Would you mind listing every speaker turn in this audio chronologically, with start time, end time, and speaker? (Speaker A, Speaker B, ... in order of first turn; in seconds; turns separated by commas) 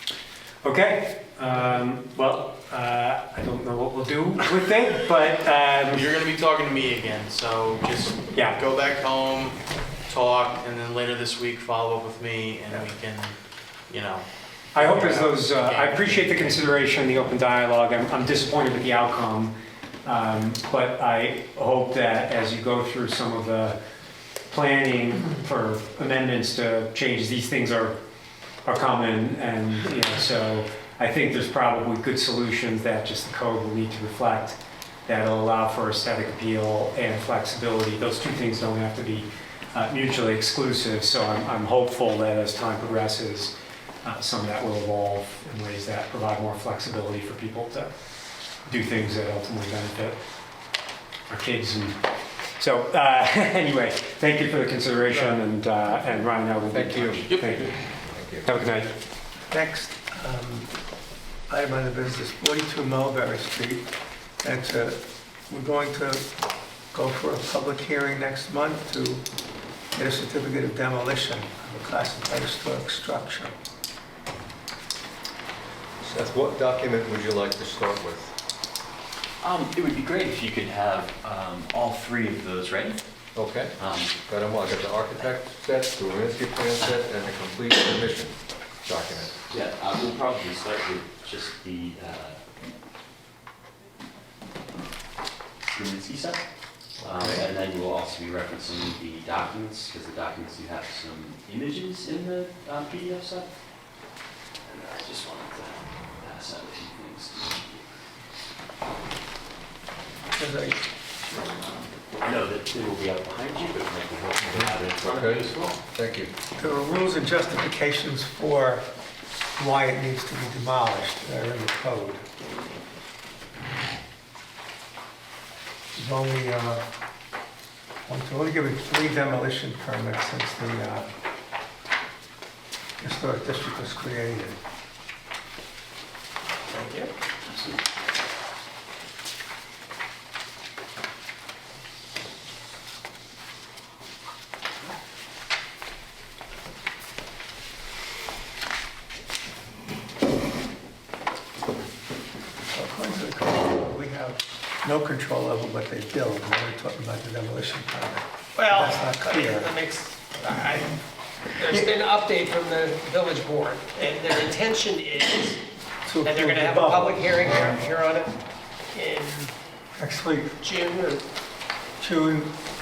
Speaker A: 0.6-6.0, Speaker B: 5.9-13.4, Speaker A: 8.3-8.6, Speaker B: 13.9-16.6, Speaker A: 14.7-19.5, Speaker A: 20.0-23.8, Speaker A: 24.5-28.0, Speaker A: 28.6-47.9, Speaker A: 48.6-50.2, Speaker A: 51.3-52.0, Speaker A: 52.6-57.8, Speaker C: 56.7-57.3, Speaker B: 57.2-57.7, Speaker C: 58.1-58.5, Speaker A: 58.4-58.9, Speaker D: 59.5-60.7, Speaker D: 61.5-63.9, Speaker D: 64.4-66.3, Speaker D: 66.9-69.2, Speaker D: 69.9-73.5, Speaker C: 76.0-78.3, Speaker E: 79.4-83.0, Speaker C: 83.3-89.4, Speaker E: 83.8-84.2, Speaker E: 89.3-92.4, Speaker E: 95.7-96.4, Speaker D: 97.0-97.4, Speaker E: 97.0-103.5, Speaker E: 104.6-107.9, Speaker D: 110.3-110.8, Speaker E: 112.2-115.8, Speaker C: 114.5-116.3, Speaker D: 116.5-118.8, Speaker D: 119.6-122.2, Speaker D: 125.9-126.8, Speaker D: 128.1-131.1, Speaker D: 133.0-134.6, Speaker F: 136.7-137.1, Speaker E: 137.5-137.8, Speaker D: 152.7-159.7, Speaker F: 158.6-161.0, Speaker F: 161.6-165.6, Speaker D: 166.0-167.8, Speaker F: 166.2-168.3, Speaker F: 168.9-169.5, Speaker D: 170.0-170.6, Speaker F: 170.6-171.2, Speaker D: 172.0-172.5